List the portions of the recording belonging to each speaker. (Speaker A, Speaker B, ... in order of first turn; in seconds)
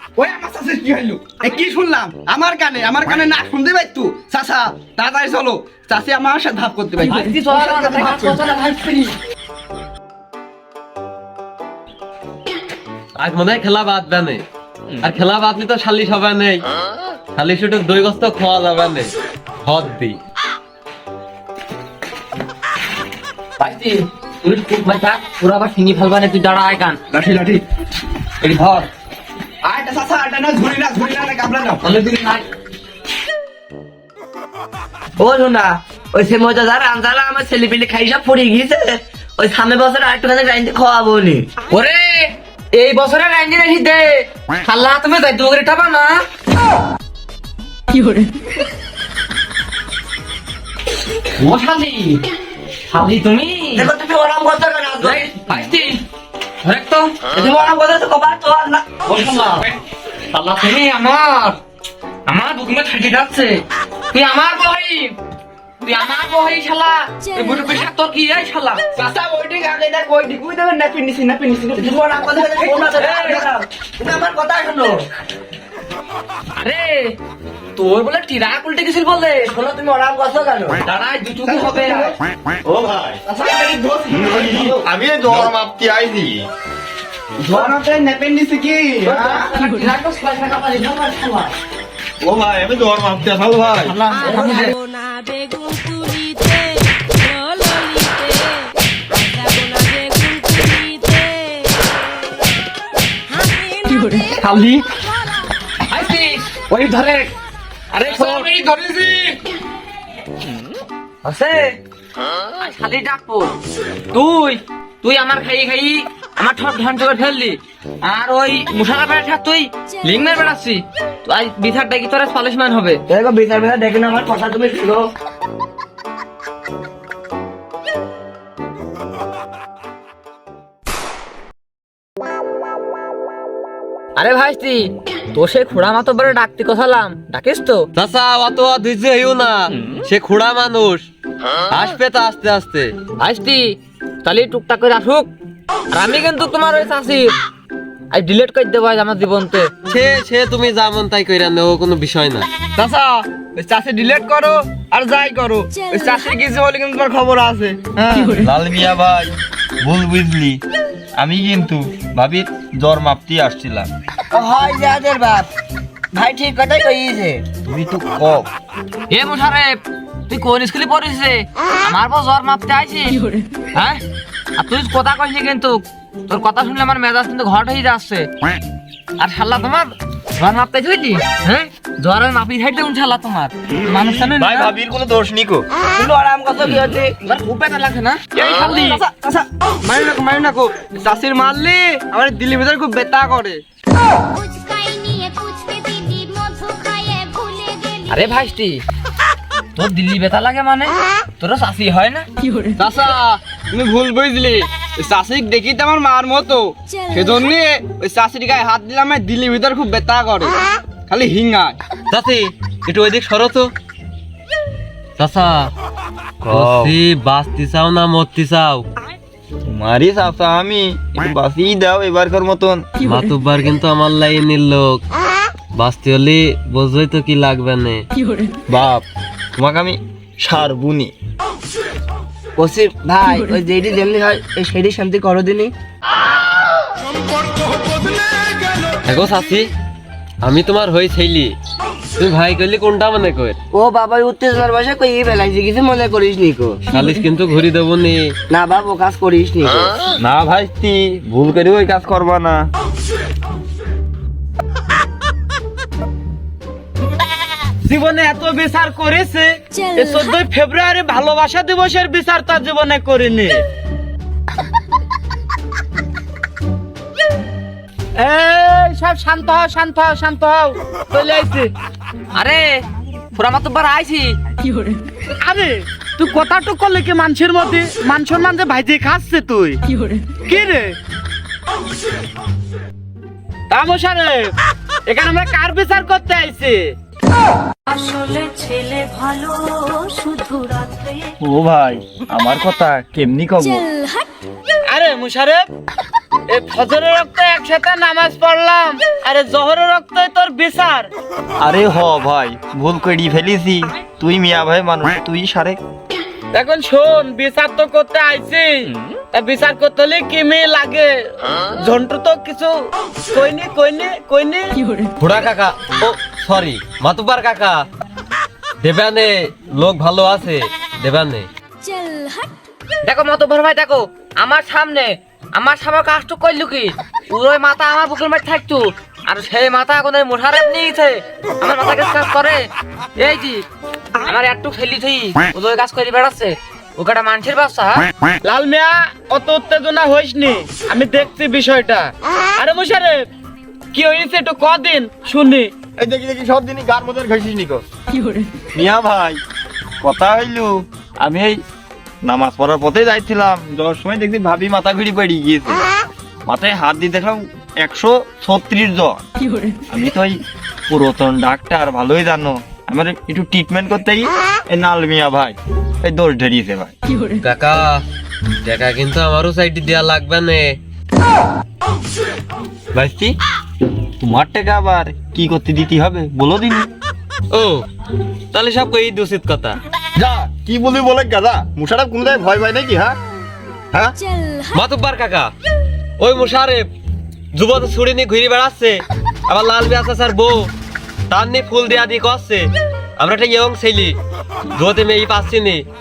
Speaker A: 0.2-8.4, 27.1-27.6, 29.6-31.8, 69.0-73.2, 81.4-82.1, 83.2-84.8, 87.4-89.5, 108.2-109.3, 152.8-158.4, 188.4-193.6, 202.8-210.5, 211.1-211.8
Speaker B: 7.0-9.1, 23.6-27.0, 28.4-28.9, 31.8-32.5, 41.7-46.2, 51.4-52.2, 52.9-53.9, 55.0-56.0, 56.6-57.2, 59.0-59.8, 60.3-61.6, 62.3-63.6, 64.1-65.2, 65.8-68.8, 72.9-73.4, 76.6-77.2, 77.8-79.5, 80.9-82.1, 89.0-91.5, 93.9-94.8, 105.9-107.3, 107.9-108.5, 111.2-111.8, 112.6-113.5, 114.1-123.0, 134.2-137.9, 143.2-145.3, 145.9-147.3, 148.1-149.7, 169.1-173.2, 173.8-174.0, 174.6-178.3, 179.2-184.7, 187.2-189.0, 198.1-198.8, 199.8-202.2, 272.4-272.8, 273.4-274.4, 323.0-333.7, 334.2-338.1
Speaker C: 13.2-14.4, 15.0-16.6, 17.4-19.1, 19.6-20.2, 138.0-141.1, 141.7-142.9, 149.9-152.5, 212.1-213.7, 215.2-215.7, 216.4-218.9, 223.0-225.0, 225.8-228.0, 239.0-239.7, 240.4-241.5, 242.2-243.6, 246.9-248.3, 315.2-317.9, 318.8-321.5, 367.4-368.0, 368.6-370.8, 377.5-377.9, 378.5-379.8, 384.7-385.5, 386.2-386.9, 387.5-390.7, 391.3-394.2, 394.8-395.8
Speaker D: 35.2-41.5, 53.8-55.2, 57.3-58.9, 71.8-75.0, 79.5-80.8, 123.1-125.1, 164.3-165.5, 166.1-167.4, 186.0-187.1, 232.6-235.7, 243.7-246.8, 248.5-250.0
Speaker E: 82.6-83.2, 84.2-86.5, 92.2-94.0, 158.4-160.6, 161.2-163.9, 167.6-168.5, 184.3-185.7, 216.5-216.9, 219.6-222.9, 228.7-229.0, 229.6-231.1, 250.2-252.6, 291.4-293.9, 301.6-305.8, 346.0-347.8, 348.8-349.4, 350.0-351.6, 352.2-355.8, 356.5-359.2, 359.9-360.4, 360.9-366.9, 372.9-373.3, 374.2-376.9, 380.2-383.2
Speaker F: 94.1-102.3, 103.3-105.5, 194.3-198.5, 287.9-291.3
Speaker G: 257.8-263.6, 268.2-271.7, 275.4-279.8, 280.5-281.0, 283.7-284.5, 285.1-286.9, 294.9-295.6, 296.5-301.1, 306.5-314.8, 338.4-343.2, 343.9-345.7